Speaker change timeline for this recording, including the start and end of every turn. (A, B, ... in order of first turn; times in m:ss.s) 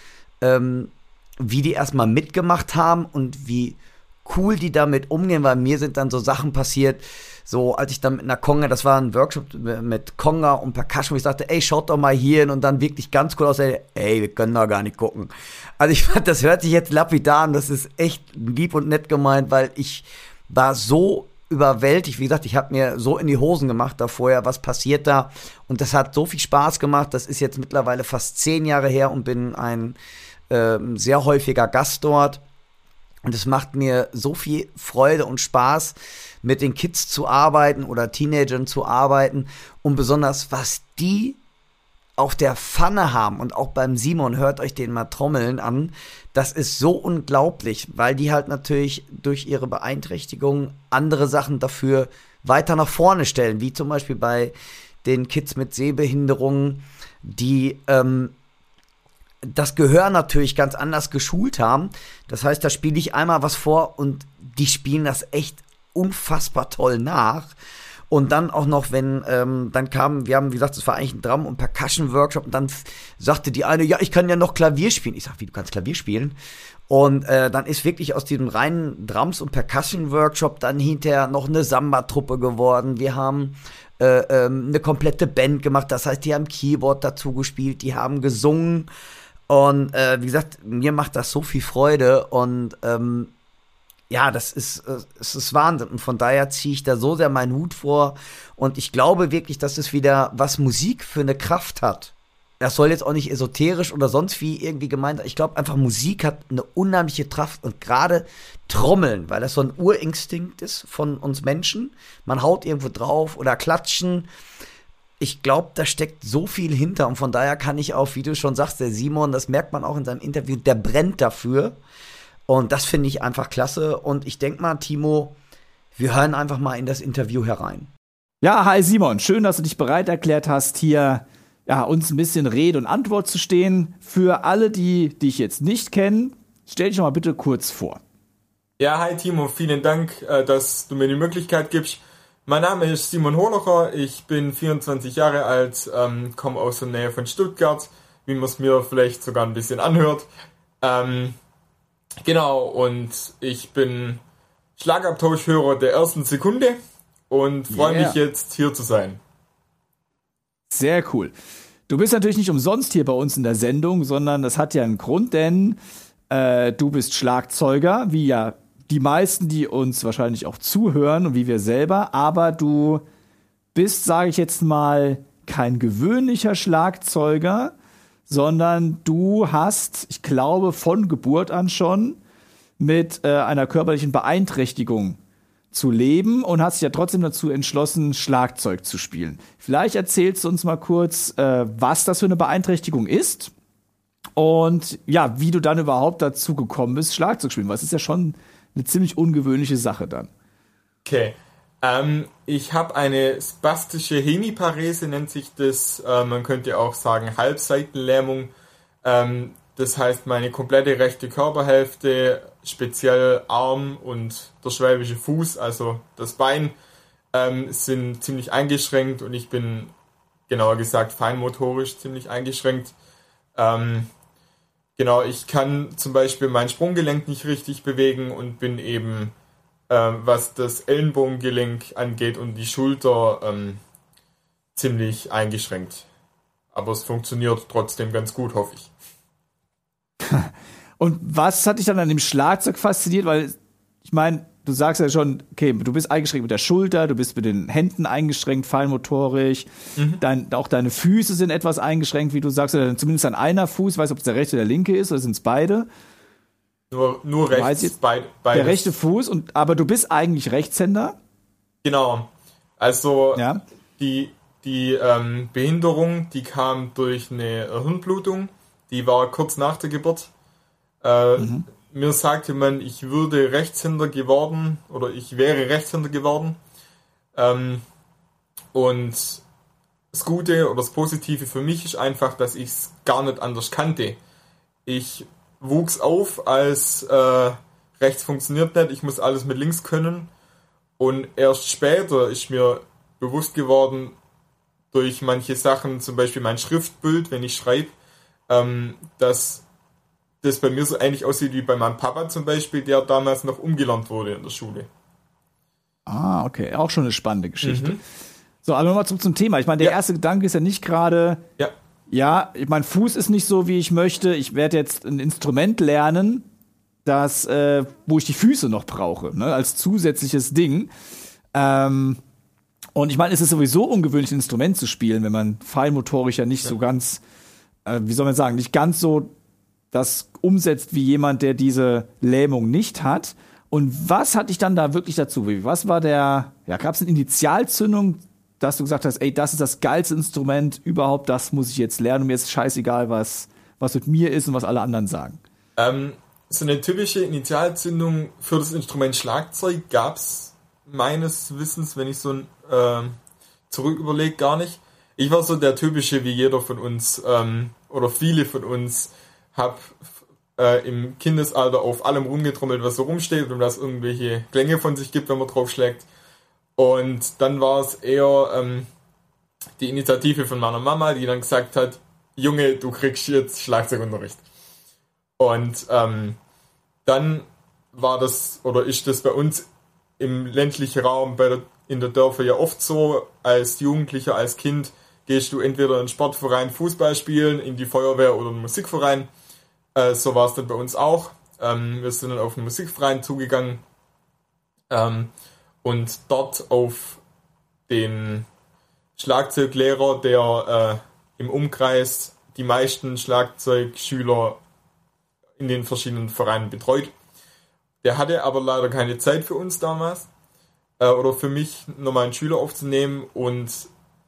0:00.4-0:30.0 A
0:30.5-0:32.4 A
0:33.3-0:41.4 A
0:42.2-0:54.5 A
0:55.0-0:58.4 A
0:59.5-1:07.5 A
1:08.1-1:16.4 A
1:16.9-1:28.9 A
1:29.5-1:33.3 A
1:34.1-1:54.3 A
1:55.2-2:01.8 A
2:02.5-2:05.4 A
2:06.0-2:07.9 A
2:08.4-2:18.0 B
2:18.8-2:30.3 C
2:30.8-2:31.4 C
2:32.2-2:34.2 C
2:34.8-2:36.8 C
2:37.3-2:39.2 C
2:37.7-2:38.2 B
2:40.7-2:41.3 B
2:41.9-2:45.8 B
2:46.3-2:53.0 B
2:53.8-2:57.7 B
2:58.3-3:02.2 B
3:02.8-3:05.2 B
3:05.7-3:13.5 B
3:14.4-3:20.3 B
3:21.0-3:28.5 C
3:29.0-3:36.8 C
3:37.3-3:39.9 C
3:40.5-3:42.9 C
3:43.6-3:44.1 C
3:45.0-3:49.3 C
3:49.9-3:53.8 C
3:54.8-3:56.0 C
3:56.7-3:58.9 C
4:00.3-4:09.7 B
4:10.0-4:10.2 C
4:10.2-4:15.9 B
4:16.9-4:18.9 C
4:17.5-4:18.0 B
4:18.5-4:21.2 B
4:21.8-4:30.3 C
4:23.4-4:23.6 B
4:31.0-4:36.6 C
4:31.4-4:31.6 B
4:37.4-4:37.8 C
4:38.7-4:39.4 C
4:40.1-4:44.2 C
4:44.9-4:50.3 C
4:51.0-4:54.2 C
4:54.9-4:58.0 C
4:58.5-4:59.6 C
5:00.4-5:04.9 C
5:06.1-5:08.0 B
5:07.6-5:08.0 C
5:08.6-5:11.4 B
5:12.1-5:16.4 B
5:17.0-5:20.9 B
5:21.5-5:22.2 B
5:23.0-5:27.2 B
5:27.9-5:29.3 B
5:29.9-5:45.4 B
5:45.8-5:53.2 C
5:53.7-6:00.0 C
6:00.6-6:06.1 C
6:06.8-6:08.9 C
6:09.8-6:14.4 C
6:15.4-6:16.4 C
6:17.1-6:19.7 C
6:20.2-6:29.3 C
6:30.0-6:33.8 C
6:34.9-6:35.3 C
6:35.8-6:37.2 C
6:37.9-6:38.5 C
6:39.2-6:44.6 C
6:45.6-6:47.1 C
6:48.0-6:50.3 C
6:51.0-6:53.9 C